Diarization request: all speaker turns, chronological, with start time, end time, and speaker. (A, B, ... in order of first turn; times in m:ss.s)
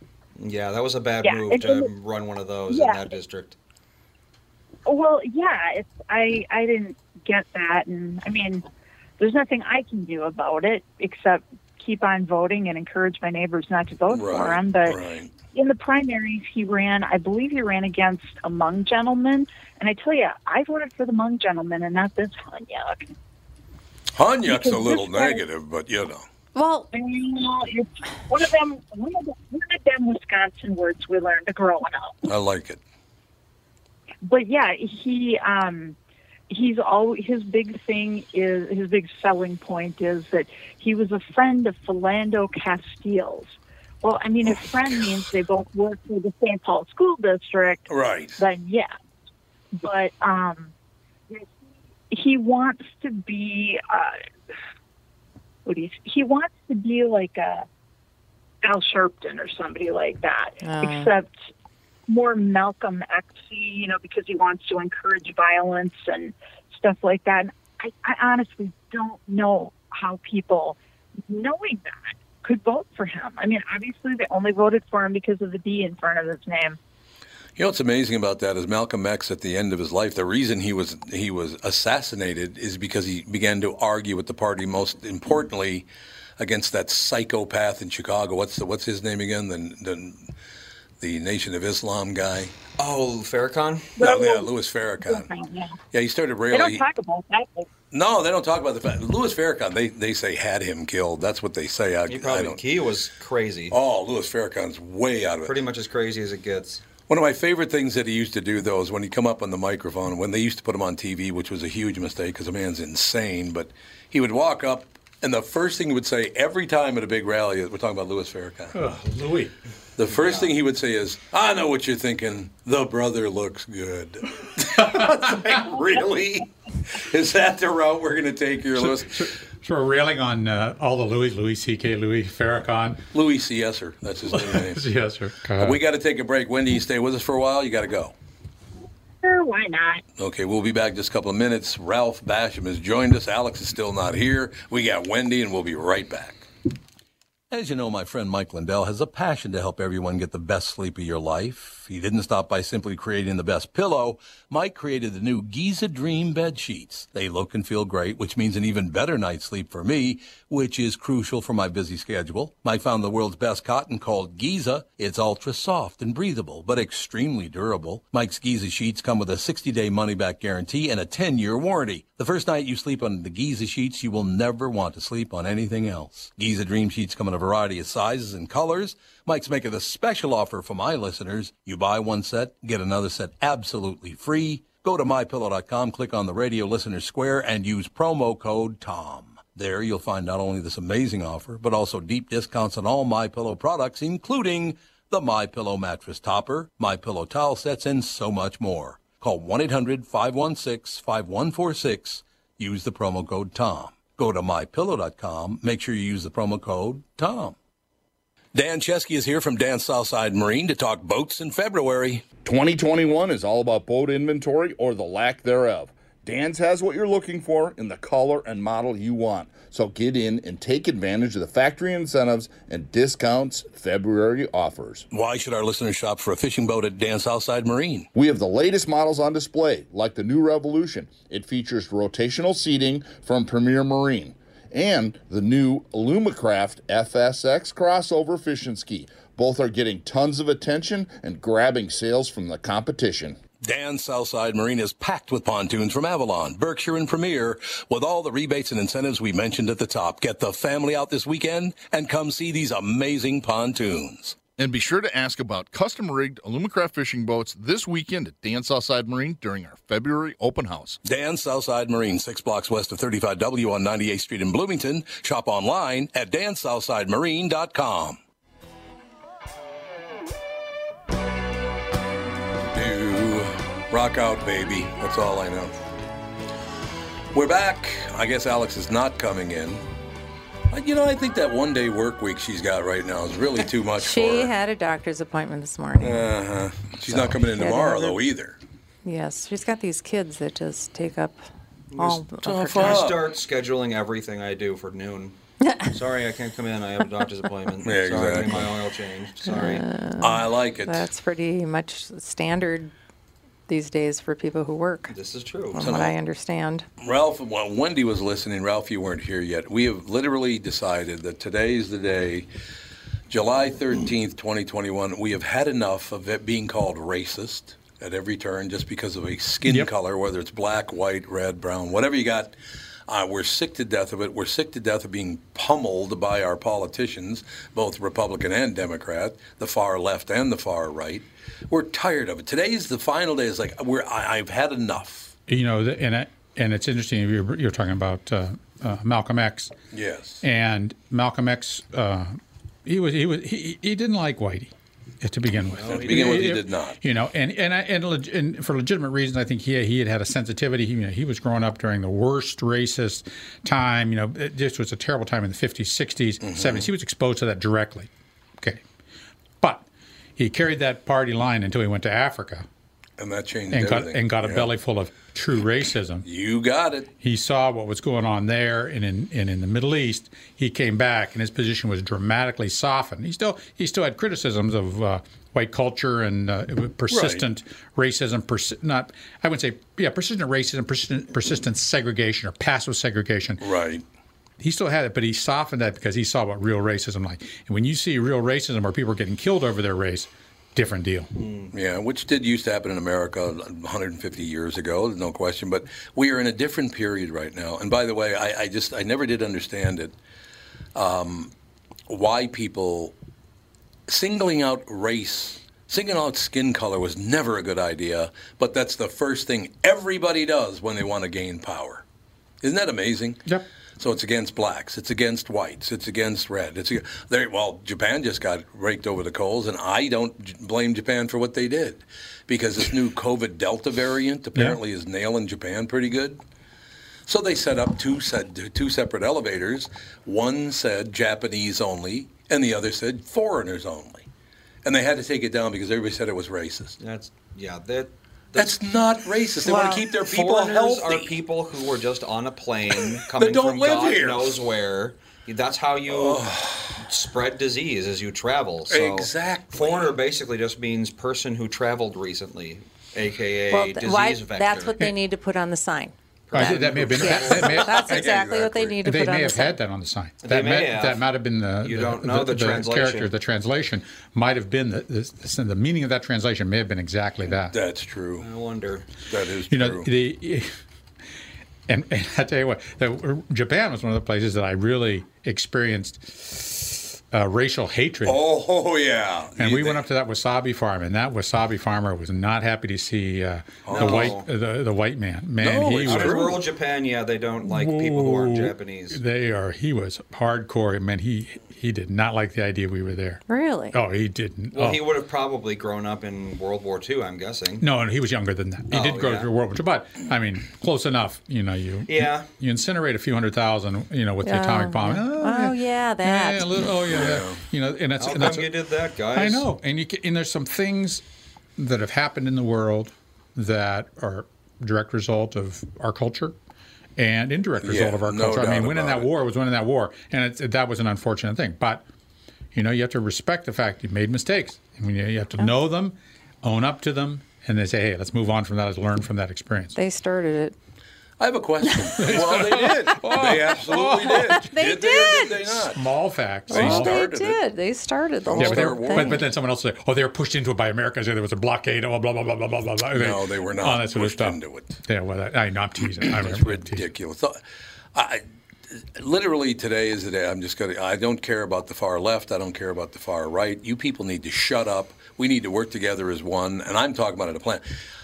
0:00.4-0:03.6 A
0:01.2-0:01.9 B
0:02.7-0:03.0 B
0:04.9-0:08.6 B
0:09.2-0:15.0 B
0:14.1-0:15.3 C
0:15.5-0:23.0 B
0:24.1-0:26.3 C
0:24.5-0:25.4 B
0:26.6-0:26.9 D
0:26.9-0:32.2 B
0:32.3-0:32.8 C
0:34.2-0:36.0 B
0:36.5-0:48.9 B
0:47.9-0:48.4 C
0:49.8-0:50.7 B
0:52.1-0:54.2 B
0:55.6-0:57.7 B
0:58.6-1:01.3 B
1:00.6-1:01.1 D
1:02.1-1:16.8 B
1:17.6-1:25.9 C
1:26.4-1:30.2 C
1:31.0-1:32.6 C
1:32.8-1:34.0 A
1:34.0-1:34.5 B
1:34.0-1:35.3 C
1:35.0-1:35.8 B
1:35.9-1:36.8 C
1:36.5-1:37.7 B
1:37.9-1:42.6 C
1:42.1-1:43.8 A
1:43.7-1:45.6 C
1:45.4-1:46.8 A
1:47.1-1:58.8 C
1:58.7-1:59.5 E
2:00.0-2:09.2 C
2:00.1-2:00.5 A
2:04.8-2:05.3 E
2:08.8-2:13.0 E
2:13.1-2:14.8 C
2:14.3-2:15.8 E
2:15.6-2:18.2 C
2:19.2-2:20.0 B
2:20.2-2:26.5 C
2:27.5-3:27.6 C
3:28.5-3:32.2 C
3:32.4-3:45.1 F
3:45.1-3:48.1 C
3:48.2-4:03.4 F
4:03.6-4:14.4 C
4:14.6-4:21.0 F
4:21.0-4:28.2 C
4:32.7-4:35.7 C
4:37.3-4:39.8 C
4:40.7-4:44.5 C
4:44.0-4:46.3 D
4:46.0-4:48.6 C
4:47.1-4:48.2 D
4:49.0-4:51.4 D
4:51.9-4:59.8 A
4:52.0-4:53.0 D
4:52.4-4:53.2 C
4:55.6-4:55.9 D
4:57.8-4:58.7 C
4:59.4-5:02.9 D
5:00.2-5:01.1 C
5:03.7-5:05.1 D
5:05.1-5:05.8 A
5:05.7-5:06.9 D
5:05.8-5:06.2 C
5:07.0-5:12.5 C
5:13.3-5:22.6 C
5:23.1-5:35.3 C
5:35.5-5:39.7 E
5:39.9-5:40.4 C
5:40.4-5:58.8 E
5:45.8-5:46.3 A
5:45.8-5:47.0 C
5:56.4-5:56.9 C
5:59.6-5:59.9 E
6:00.4-6:02.7 E
6:03.2-6:04.7 C
6:03.7-6:06.2 E
6:06.2-6:07.1 C
6:07.2-6:23.6 E
6:17.1-6:17.4 C
6:23.6-6:24.0 C
6:24.6-6:31.3 E
6:31.4-6:31.7 A
6:31.7-6:40.2 C
6:41.0-6:41.5 C
6:42.1-6:43.2 C
6:44.1-6:52.0 C
6:52.6-6:53.4 C
6:54.0-7:06.4 C
7:07.3-7:14.3 C
7:14.8-7:17.0 C
7:17.0-7:18.7 A
7:18.6-7:21.4 C
7:19.7-7:20.0 D
7:19.8-7:35.0 A
7:23.2-7:24.6 C
7:26.1-7:27.0 C
7:28.9-7:30.1 C
7:33.7-7:39.8 D
7:36.5-7:37.9 A
7:36.5-7:38.0 E
7:37.0-7:39.0 C
7:39.0-7:47.8 E
7:40.4-7:41.2 A
7:41.8-7:43.3 A
7:47.7-7:48.5 C
7:48.4-7:49.1 A
7:49.3-7:50.1 C
7:49.7-7:50.7 E
7:51.9-7:58.4 E
7:58.2-8:00.0 C
7:59.6-8:06.6 E
8:03.8-8:04.4 C
8:03.9-8:04.5 A
8:05.6-8:06.6 C
8:06.0-8:09.2 A
8:07.6-8:13.4 E
8:13.5-8:14.0 D
8:13.9-8:15.0 E
8:14.7-8:17.9 A
8:17.8-8:28.7 E
8:18.9-8:19.5 A
8:22.1-8:22.5 A
8:24.4-8:26.7 D
8:27.1-8:27.6 C
8:28.2-8:29.7 A
8:29.3-8:31.2 E
8:31.8-8:36.6 E
8:37.2-8:42.0 E
8:37.8-8:39.3 C
8:42.7-8:50.0 E
8:50.0-8:50.8 D
8:51.4-8:56.1 C
8:52.2-8:54.6 E
8:54.5-8:55.6 D
8:55.9-8:57.2 E
8:56.7-8:59.4 D
8:56.7-8:57.6 C
8:58.5-8:59.5 C
8:58.6-9:07.0 E
9:03.2-9:05.0 C
9:06.2-9:07.6 C
9:08.1-9:08.4 C
9:09.2-9:17.8 C